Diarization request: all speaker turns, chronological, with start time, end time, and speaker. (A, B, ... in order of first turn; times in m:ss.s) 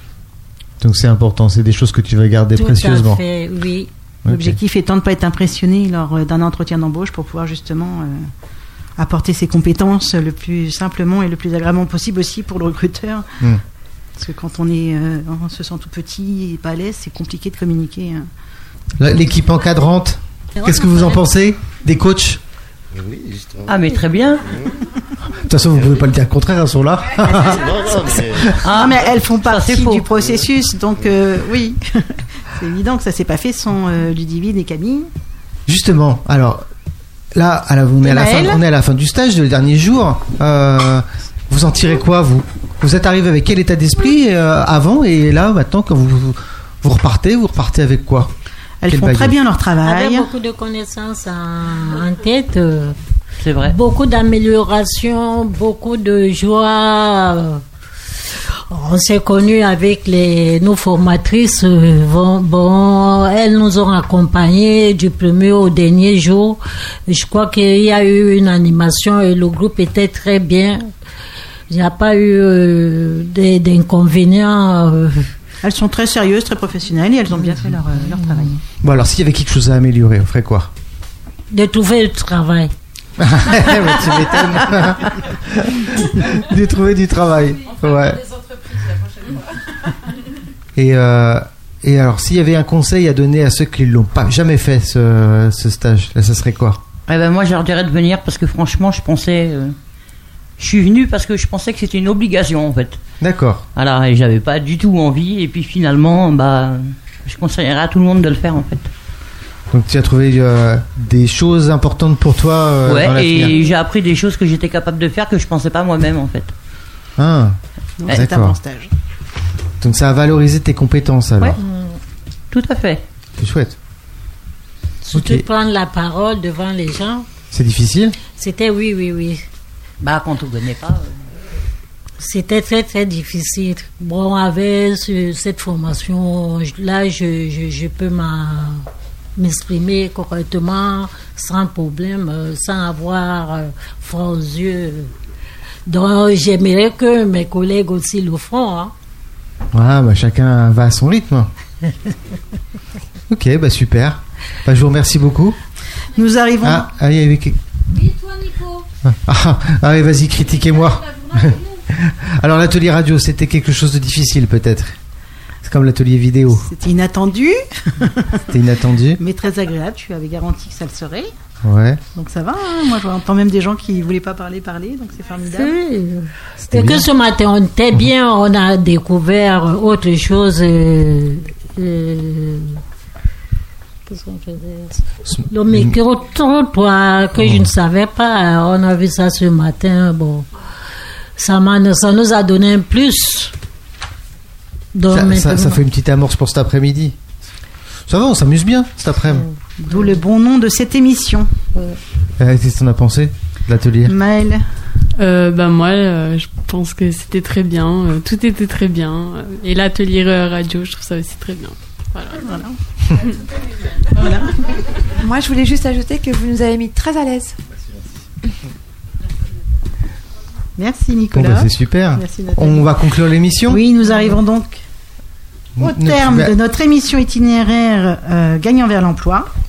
0:00.8-0:03.2 A
0:02.5-0:03.9 B
0:04.2-0:04.6 A
0:04.3-0:08.3 C
0:09.0-0:13.4 C
0:14.2-0:18.3 C
0:19.0-0:22.4 A
0:22.9-0:23.8 D
0:23.7-0:24.4 E
0:25.3-0:28.6 A
0:27.3-0:28.6 D
0:28.6-0:30.0 E
0:28.7-0:35.1 C
0:35.7-0:36.6 A
0:37.3-0:48.3 A
0:38.0-0:38.6 C
0:48.8-0:50.3 C
0:48.9-0:49.4 A
0:49.8-0:53.0 B
0:53.4-0:53.8 E
0:53.6-0:57.6 B
0:58.7-1:10.9 B
1:11.7-1:15.3 B
1:15.6-1:18.6 C
1:18.8-1:20.7 A
1:21.5-1:22.7 B
1:23.2-1:28.5 A
1:30.7-1:36.8 A
1:37.1-1:39.8 E
1:40.6-1:43.0 E
1:43.2-1:43.7 A
1:43.8-1:48.9 E
1:49.7-1:53.6 A
1:52.8-1:56.5 E
1:57.2-1:58.6 A
1:58.0-1:58.9 C
1:59.8-2:01.6 A
2:01.6-2:02.0 B
2:02.5-2:03.0 E
2:03.4-2:03.8 A
2:05.0-2:07.3 B
2:05.1-2:05.4 A
2:07.5-2:08.2 A
2:08.3-2:09.4 B
2:10.0-2:11.2 E
2:12.2-2:25.1 B
2:25.9-2:28.9 B
2:29.7-2:31.5 A
2:33.3-2:35.6 A
2:36.1-2:36.9 C
2:36.6-2:37.6 A
2:38.2-2:38.8 B
2:39.0-2:45.0 A
2:45.6-2:46.7 A
2:46.6-2:48.4 C
2:48.5-2:49.2 A
2:49.2-2:51.3 C
2:51.6-2:52.0 A
2:52.1-2:55.8 C
2:55.5-3:02.8 B
2:56.7-2:57.1 A
3:04.1-3:10.5 B
3:05.3-3:05.9 A
3:07.3-3:07.7 A
3:11.4-3:13.5 B
3:14.9-3:15.8 B
3:15.1-3:17.2 A
3:18.1-3:19.5 A
3:19.8-3:21.5 C
3:22.4-3:24.2 A
3:24.0-3:24.6 C
3:25.2-3:32.4 F
3:32.3-3:32.8 C
3:34.1-3:34.6 C
3:35.2-3:37.6 G
3:40.8-3:42.9 C
3:41.3-3:43.8 A
3:43.6-3:44.8 C
3:45.8-3:46.5 A
3:45.8-3:49.5 C